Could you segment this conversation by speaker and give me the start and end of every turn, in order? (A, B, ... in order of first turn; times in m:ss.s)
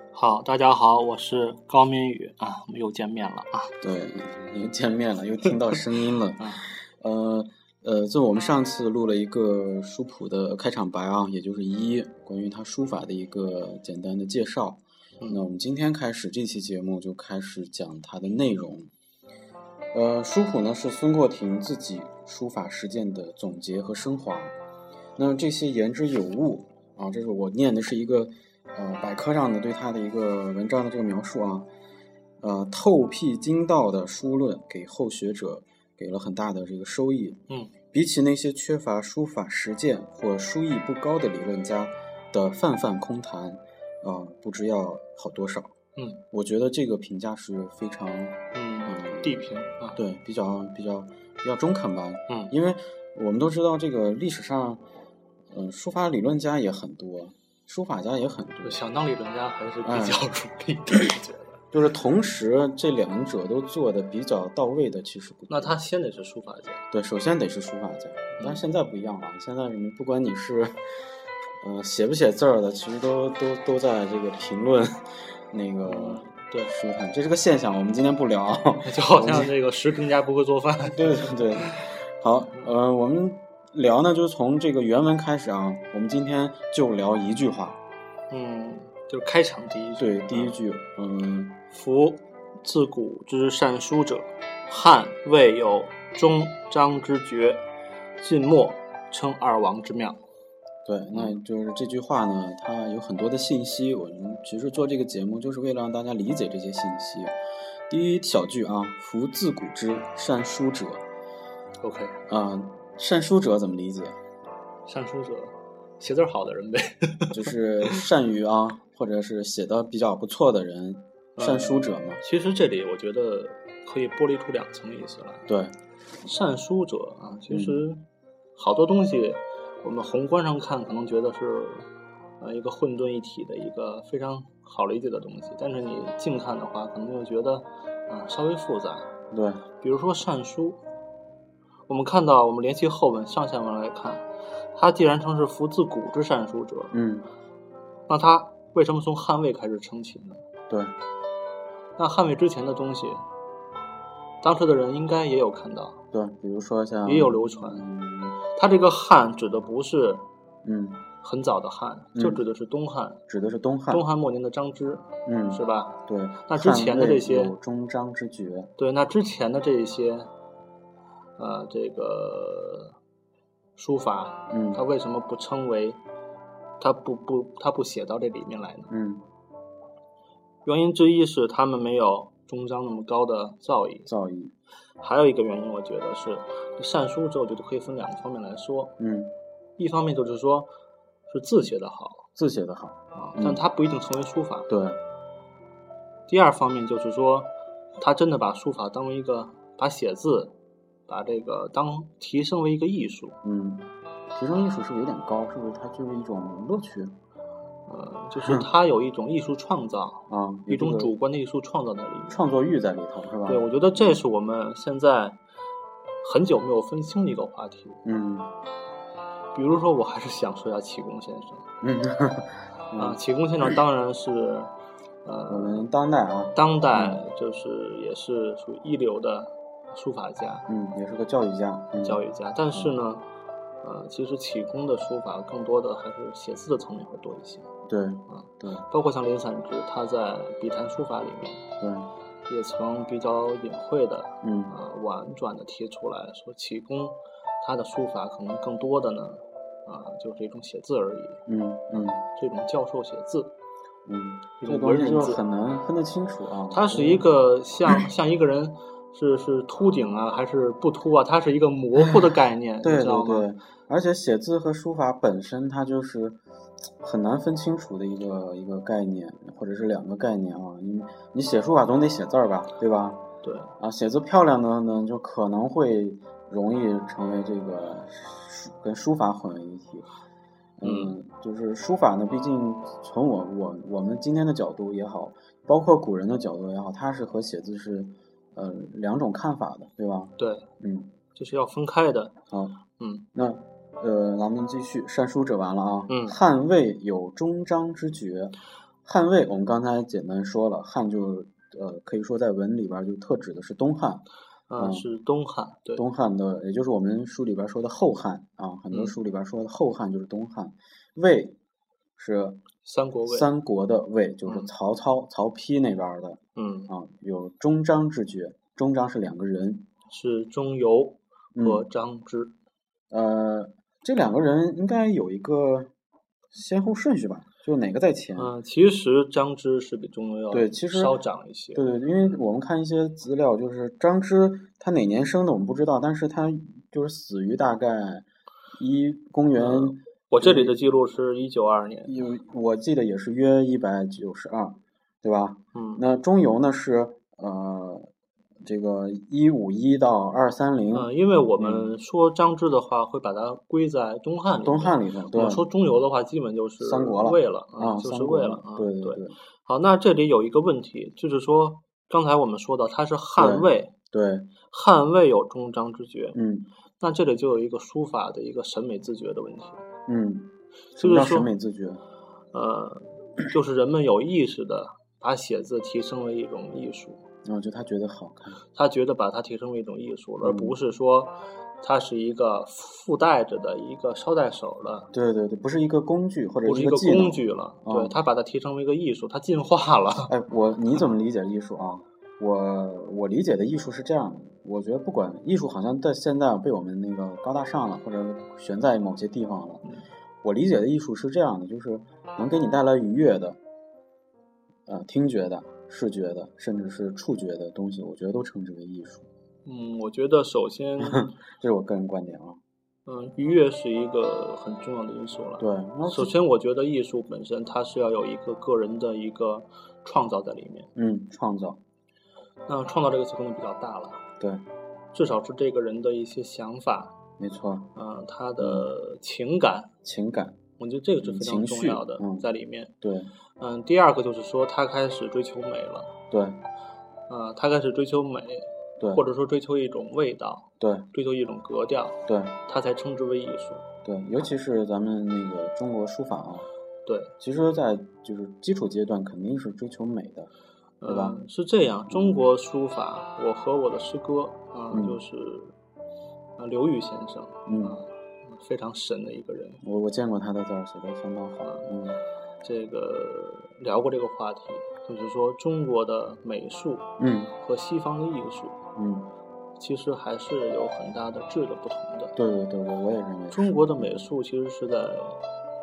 0:00.1-0:03.7 A
0:03.8-0:18.9 B
0:06.4-0:06.7 A
0:19.9-0:24.5 B
0:25.2-0:31.7 B
0:32.4-0:37.4 B
0:37.5-0:37.7 A
0:37.9-0:45.7 B
0:46.0-0:46.2 A
0:46.3-0:54.8 B
0:48.5-0:50.0 A
0:52.3-0:52.5 A
0:55.5-0:58.8 B
0:58.6-1:01.6 A
0:59.8-1:00.3 B
1:01.7-1:05.8 B
1:05.5-1:06.8 A
1:06.9-1:10.8 B
1:11.6-1:19.5 B
1:15.8-1:16.7 A
1:18.8-1:21.9 A
1:20.9-1:27.8 B
1:28.3-1:30.5 A
1:30.0-1:31.6 B
1:31.7-1:37.6 A
1:38.2-1:40.2 A
1:40.8-1:47.3 B
1:47.9-1:51.0 B
1:51.8-1:52.2 A
1:52.3-1:54.2 B
1:54.8-1:58.0 A
1:57.3-2:02.2 B
2:01.4-2:05.5 A
2:05.5-2:05.7 B
2:06.2-2:08.0 A
2:07.5-2:07.8 B
2:08.6-2:11.9 A
2:12.4-2:19.1 A
2:19.3-2:19.6 B
2:19.8-2:20.8 A
2:21.9-2:27.0 A
2:26.9-2:27.3 B
2:28.1-2:30.4 A
2:30.7-2:30.9 B
2:32.0-2:33.2 A
2:34.4-2:36.0 A
2:36.1-2:38.4 B
2:37.0-2:37.9 A
2:38.5-2:40.2 A
2:40.6-2:41.0 B
2:41.2-2:43.2 A
2:42.1-2:42.4 B
2:43.3-2:44.0 B
2:43.9-2:47.5 A
2:45.2-2:48.7 B
2:48.8-2:50.3 A
2:51.4-2:52.9 A
2:53.8-2:56.0 A
2:54.5-2:54.8 B
2:56.8-2:58.9 A
2:58.9-2:59.2 B
3:00.6-3:04.1 A
3:04.1-3:04.5 B
3:05.0-3:09.0 A
3:09.0-3:09.4 B
3:09.8-3:10.7 A
3:11.3-3:12.3 A
3:12.4-3:13.6 B
3:13.1-3:14.7 A
3:14.7-3:15.0 B
3:16.3-3:20.5 A
3:21.1-3:23.4 A
3:23.4-3:27.1 B
3:27.9-3:32.5 A
3:30.3-3:31.1 B
3:32.3-3:34.2 B
3:33.4-3:35.4 A
3:36.2-3:38.0 A
3:38.0-3:38.5 B
3:39.5-3:41.6 A
3:41.8-3:43.2 B
3:42.9-3:44.7 A
3:45.2-3:45.9 A
3:45.5-3:47.2 B
3:46.5-3:50.7 A
3:50.7-3:52.2 B
3:52.0-3:53.3 A
3:53.8-3:57.7 A
3:57.8-3:58.8 B
3:58.3-4:01.6 A
4:01.8-4:02.1 B
4:02.5-4:11.4 A
4:04.4-4:04.8 B
4:11.5-4:12.2 B
4:11.9-4:13.5 A
4:14.0-4:17.3 B
4:14.6-4:15.4 A
4:16.7-4:23.5 A
4:22.8-4:26.4 B
4:27.0-4:33.2 B
4:33.4-4:33.7 A
4:33.8-4:40.1 B
4:40.8-4:51.1 B
4:40.8-4:41.1 A
4:50.4-4:50.7 A
4:51.3-4:52.3 A
4:52.5-4:52.8 B
4:53.0-4:53.3 A
4:53.3-5:04.2 B
4:56.1-4:56.4 A
5:04.7-5:06.0 A
5:04.8-5:05.1 B
5:06.0-5:11.6 B
5:12.2-5:12.6 B
5:12.8-5:13.5 A
5:13.2-5:19.9 B
5:16.6-5:16.9 A
5:20.1-5:22.5 A
5:21.5-5:21.8 B
5:23.1-5:25.9 B
5:26.5-5:28.5 B
5:28.4-5:32.0 A
5:30.5-5:31.2 B
5:31.7-5:40.8 B
5:39.5-5:42.2 A
5:42.0-5:48.1 B
5:45.7-5:46.0 A
5:48.6-5:51.9 B
5:50.9-6:03.9 A
5:54.6-5:55.6 B
5:56.8-5:59.4 B
6:03.4-6:04.5 B
6:04.7-6:06.4 A
6:06.3-6:06.7 B
6:07.0-6:09.8 A
6:10.1-6:12.0 B
6:11.0-6:11.5 A
6:12.5-6:17.2 A
6:17.4-6:18.6 B
6:18.7-6:25.1 A
6:20.4-6:20.8 B
6:25.1-6:28.1 B
6:26.6-6:30.3 A
6:30.3-6:39.8 B
6:40.4-6:43.6 B
6:44.9-6:49.3 B
6:49.6-6:51.3 A
6:51.0-6:52.6 B
6:53.0-7:00.9 A
6:55.6-6:56.3 B
7:01.0-7:01.8 B
7:02.7-7:04.2 A
7:05.1-7:07.1 A
7:07.4-7:07.9 B
7:07.9-7:09.9 A
7:08.6-7:08.9 B
7:10.0-7:10.6 B
7:10.8-7:12.9 A
7:11.2-7:12.5 B
7:13.0-7:13.3 B
7:13.6-7:16.1 A
7:16.3-7:16.6 B
7:17.3-7:23.8 A
7:19.0-7:19.2 B
7:20.8-7:21.1 B
7:22.3-7:22.5 B
7:24.0-7:26.7 B
7:27.0-7:27.3 A
7:27.4-7:30.5 B
7:31.0-7:35.7 A
7:31.0-7:31.4 B
7:32.1-7:32.4 B
7:34.9-7:35.2 B
7:36.6-7:39.8 A
7:37.7-7:38.0 B
7:39.8-7:42.2 B
7:41.6-7:41.9 A
7:42.6-7:48.8 A
7:47.2-7:47.5 B
7:49.0-7:49.3 B
7:49.8-7:52.4 A
7:52.4-7:54.2 B
7:53.5-7:55.4 A